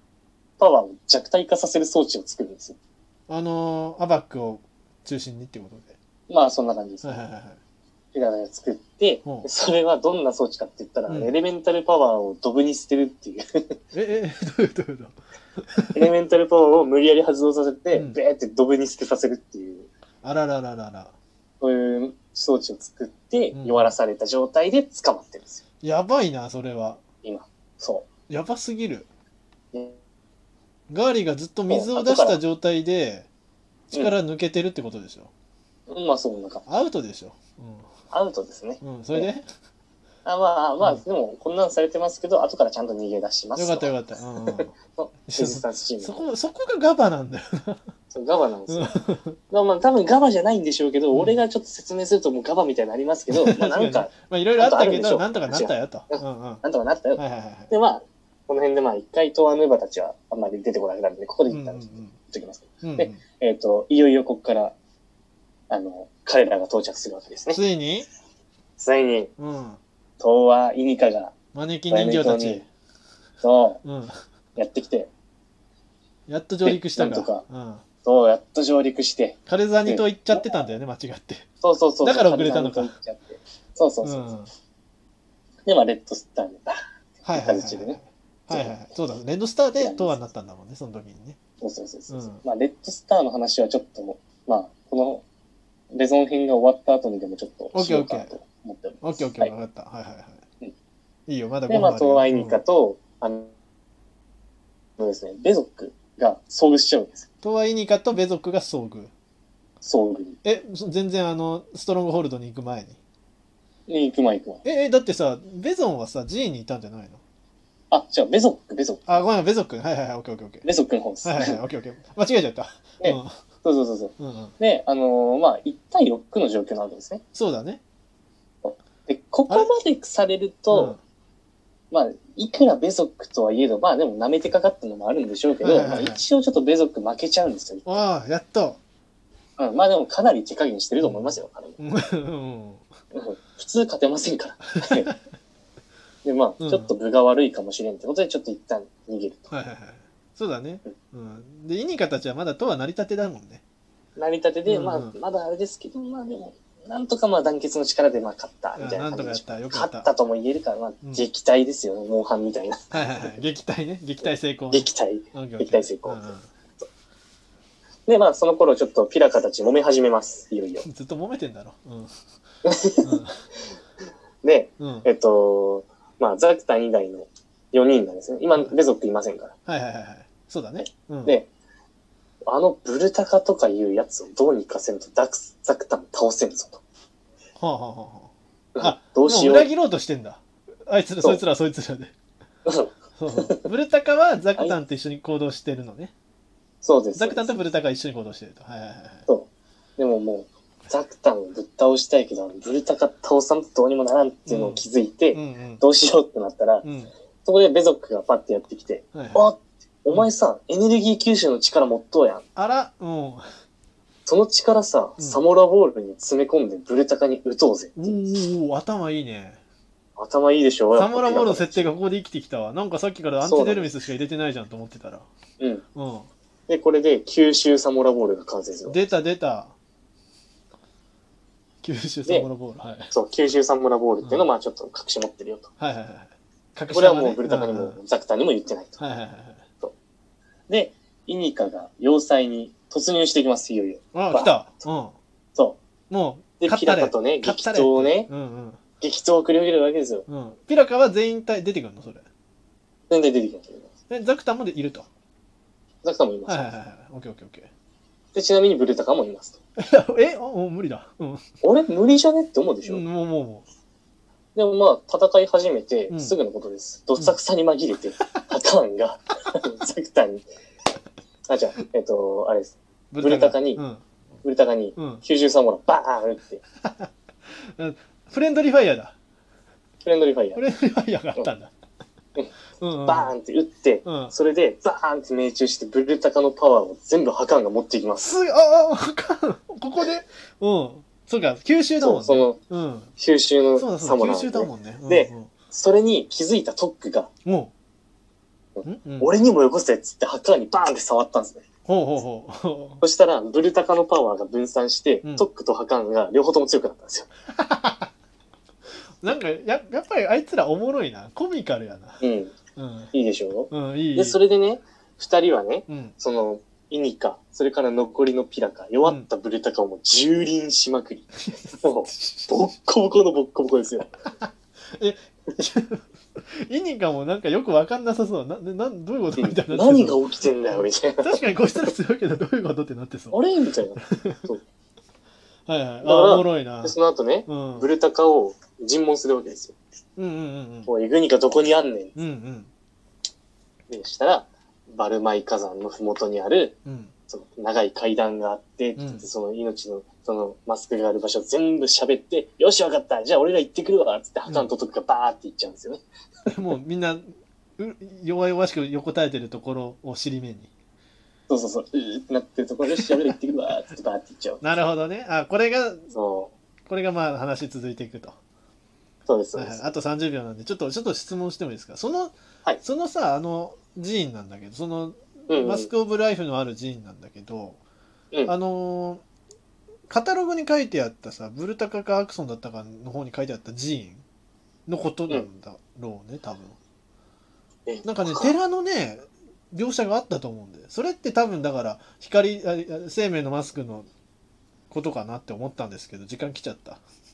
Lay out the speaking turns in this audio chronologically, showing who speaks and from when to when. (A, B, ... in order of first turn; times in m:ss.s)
0:00.6-0:02.8 A
0:03.3-0:05.9 B
0:06.3-0:07.2 A
0:07.0-0:07.6 B
0:08.1-0:13.8 A
0:11.1-0:11.3 B
0:13.9-0:16.0 B
0:15.9-0:19.9 A
0:17.9-0:18.2 B
0:20.2-0:21.1 B
0:21.6-0:25.6 A
0:23.5-0:24.0 B
0:25.8-0:27.0 B
0:27.2-0:28.1 A
0:28.3-0:29.1 B
0:29.7-0:30.0 A
0:30.9-0:33.3 B
0:31.7-0:32.4 A
0:33.9-0:35.3 B
0:35.9-0:36.7 A
0:36.6-0:37.8 B
0:38.1-0:39.3 A
0:38.8-0:39.4 B
0:40.2-0:43.9 A
0:43.6-0:44.7 B
0:44.5-0:46.2 A
0:45.3-0:47.8 B
0:48.1-0:49.0 A
0:48.7-0:49.4 B
0:49.5-1:04.7 A
0:51.1-0:51.4 B
0:53.3-0:56.6 B
0:57.2-0:57.7 B
1:01.5-1:02.1 B
1:02.8-1:03.2 B
1:05.7-1:07.6 A
1:07.5-1:08.1 B
1:08.8-1:09.3 A
1:09.4-1:09.8 B
1:10.2-1:11.3 A
1:11.5-1:12.7 B
1:11.9-1:12.6 A
1:13.4-1:13.8 A
1:13.8-1:14.2 B
1:14.6-1:15.1 A
1:16.3-1:17.8 B
1:16.6-1:17.4 A
1:18.0-1:20.5 A
1:19.5-1:21.4 B
1:21.6-1:24.3 A
1:22.0-1:22.9 B
1:24.0-1:24.5 B
1:25.6-1:28.0 A
1:27.2-1:31.4 B
1:28.5-1:28.8 A
1:29.8-1:30.2 A
1:31.6-1:35.2 A
1:32.1-1:32.4 B
1:35.9-1:39.5 A
1:37.7-1:38.3 B
1:39.0-1:40.4 B
1:41.3-1:42.6 B
1:41.7-1:43.5 A
1:45.0-1:47.3 A
1:47.4-1:49.1 B
1:49.8-1:50.4 A
1:50.4-1:53.0 B
1:53.9-1:54.6 A
1:54.6-1:57.2 B
1:57.9-1:59.2 A
1:59.1-2:00.6 B
2:00.6-2:01.6 A
2:01.2-2:03.4 B
2:03.0-2:07.2 A
2:04.2-2:04.5 B
2:07.3-2:07.8 B
2:08.6-2:10.9 A
2:10.7-2:11.0 B
2:11.9-2:18.0 A
2:15.6-2:16.2 B
2:17.8-2:18.8 B
2:19.6-2:21.8 A
2:21.0-2:22.8 B
2:23.1-2:25.1 A
2:24.8-2:25.1 B
2:26.2-2:29.5 A
2:26.6-2:26.9 B
2:29.5-2:33.6 B
2:34.2-2:43.4 A
2:34.6-2:35.1 B
2:38.8-2:40.1 B
2:42.9-2:46.5 B
2:44.7-2:46.2 A
2:48.1-2:50.8 A
2:50.8-2:52.1 B
2:52.6-2:53.1 A
2:53.0-2:53.3 B
2:54.4-2:59.5 A
2:54.8-2:55.1 B
2:59.7-3:01.4 B
3:00.8-3:01.5 A
3:02.5-3:06.8 A
3:07.6-3:12.1 B
3:08.8-3:09.7 A
3:12.6-3:13.6 A
3:13.2-3:16.1 B
3:16.8-3:17.6 A
3:17.1-3:19.2 B
3:19.3-3:26.8 A
3:24.5-3:25.8 B
3:26.8-3:27.1 B
3:27.4-3:32.4 A
3:29.1-3:29.4 B
3:32.6-3:33.4 B
3:34.2-3:38.1 A
3:38.0-3:39.6 B
3:40.2-3:41.9 A
3:40.9-3:45.3 B
3:43.4-3:43.9 A
3:45.9-3:46.3 B
3:46.7-3:49.0 A
3:48.8-3:49.7 B
3:51.8-3:53.1 B
3:53.1-3:55.7 A
3:55.8-3:58.0 B
3:56.9-3:59.0 A
3:59.0-3:59.6 B
4:00.7-4:04.5 A
4:04.1-4:05.1 B
4:06.1-4:08.8 B
4:06.6-4:08.3 A
4:09.0-4:10.2 A
4:10.3-4:12.2 B
4:13.1-4:13.9 A
4:14.1-4:15.1 B
4:16.0-4:16.7 A
4:16.4-4:17.7 B
4:18.3-4:19.6 A
4:19.8-4:21.4 B
4:21.6-4:23.0 A
4:22.8-4:23.6 B
4:24.5-4:30.4 A
4:26.1-4:26.4 B
4:31.5-4:33.8 A
4:33.1-4:34.0 B
4:34.4-4:36.6 A
4:35.0-4:35.2 B
4:36.8-4:37.1 B
4:37.8-4:39.1 B
4:40.0-4:40.6 A
4:40.6-4:41.7 B
4:42.8-4:43.3 B
4:43.0-4:48.3 A
4:44.0-4:44.3 B
4:48.2-4:53.1 B
4:52.0-4:52.6 A
4:53.2-4:57.3 A
4:53.8-4:55.5 B
4:57.4-4:57.7 B
4:58.8-5:01.6 A
4:58.8-4:59.3 B
5:01.8-5:03.0 B
5:03.0-5:07.3 A
5:07.6-5:08.1 B
5:09.2-5:12.2 B
5:12.2-5:12.6 A
5:12.8-5:13.1 B
5:13.1-5:24.1 A
5:13.7-5:14.4 B
5:15.9-5:16.1 B
5:21.5-5:22.7 B
5:25.0-5:26.0 B
5:26.7-5:30.2 B
5:29.4-5:31.4 A
5:31.2-5:33.4 B
5:33.3-5:34.6 A
5:34.1-5:34.4 B
5:35.7-5:36.9 B
5:36.0-5:39.7 A
5:37.5-5:37.9 B
5:40.2-5:40.9 B
5:40.8-5:42.1 A
5:42.2-5:42.7 B
5:43.9-5:46.8 A
5:46.8-5:47.1 B
5:47.3-5:56.0 A
5:49.0-5:49.2 B
5:56.5-5:57.2 B
5:57.8-6:00.7 B
6:01.5-6:04.6 A
6:04.6-6:06.1 B
6:06.1-6:06.5 A
6:06.9-6:08.4 B
6:09.3-6:09.9 A
6:09.5-6:17.8 B
6:15.5-6:15.9 A
6:18.4-6:19.2 B
6:20.1-6:24.2 B
6:24.9-6:26.8 B
6:27.8-6:28.5 A
6:28.0-6:34.1 B
6:34.9-6:37.0 B